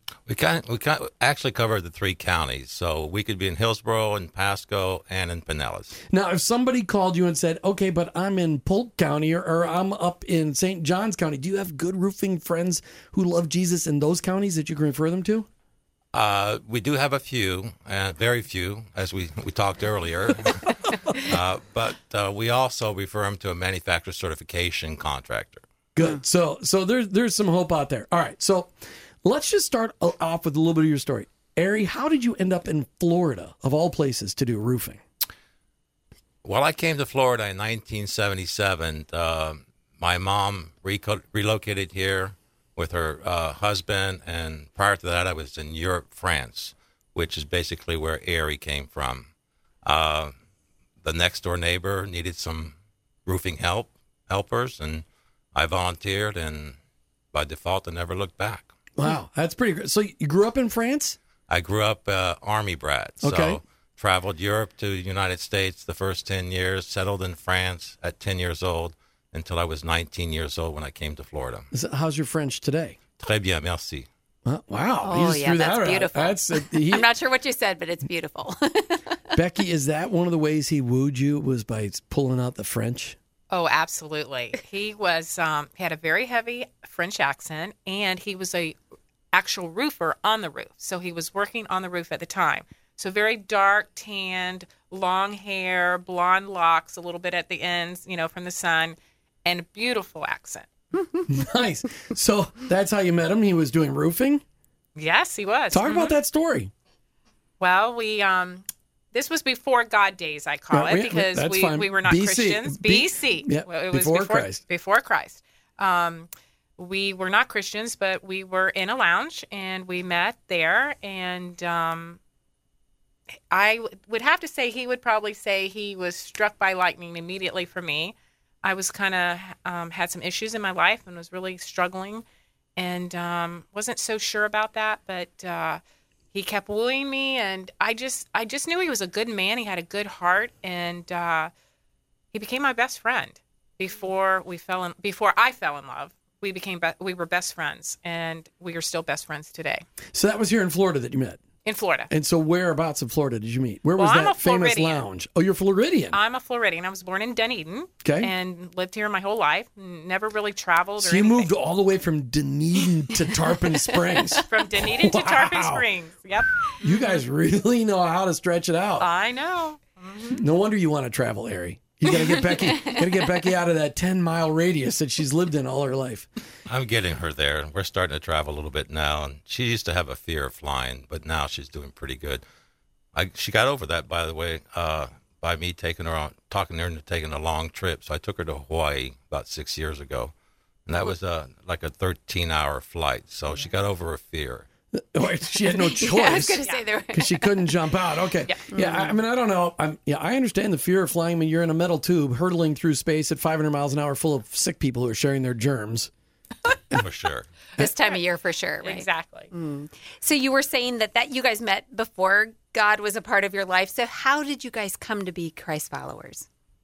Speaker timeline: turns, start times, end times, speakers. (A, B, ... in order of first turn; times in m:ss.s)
0:00.3-0:06.0 A
0:06.1-0:15.5 B
0:16.1-0:25.6 A
0:26.0-0:35.0 B
0:36.4-0:49.3 A
0:49.8-0:50.3 A
0:51.0-0:56.8 A
0:57.3-0:58.7 A
0:59.0-1:01.2 B
1:01.5-1:11.7 A
1:03.2-1:03.6 B
1:11.7-1:13.0 B
1:13.2-1:14.1 A
1:14.4-1:17.1 B
1:15.0-1:19.1 C
1:19.3-1:23.2 B
1:23.5-1:28.8 D
1:29.3-1:40.7 D
1:41.3-1:44.4 B
1:45.0-1:46.1 D
1:45.7-1:46.7 B
1:47.6-2:02.2 D
1:50.7-1:54.6 B
2:03.5-2:12.2 D
2:12.8-2:15.8 D
2:16.3-2:21.5 D
2:22.3-2:29.8 D
2:30.1-2:31.4 B
2:31.6-2:32.1 D
2:32.1-2:36.2 B
2:34.0-2:35.0 D
2:36.1-2:41.5 D
2:38.0-2:38.3 B
2:41.0-2:45.8 B
2:44.4-2:47.2 D
2:46.8-2:49.1 B
2:49.0-2:50.4 D
2:50.3-2:56.3 B
2:52.1-2:53.0 D
2:56.7-3:02.4 A
3:03.1-3:10.3 A
3:10.8-3:14.7 A
3:14.9-3:16.6 B
3:15.7-3:17.7 C
3:17.1-3:26.1 B
3:18.4-3:18.7 D
3:18.7-3:19.2 C
3:26.9-3:27.5 A
3:27.8-3:36.4 C
3:28.8-3:29.5 D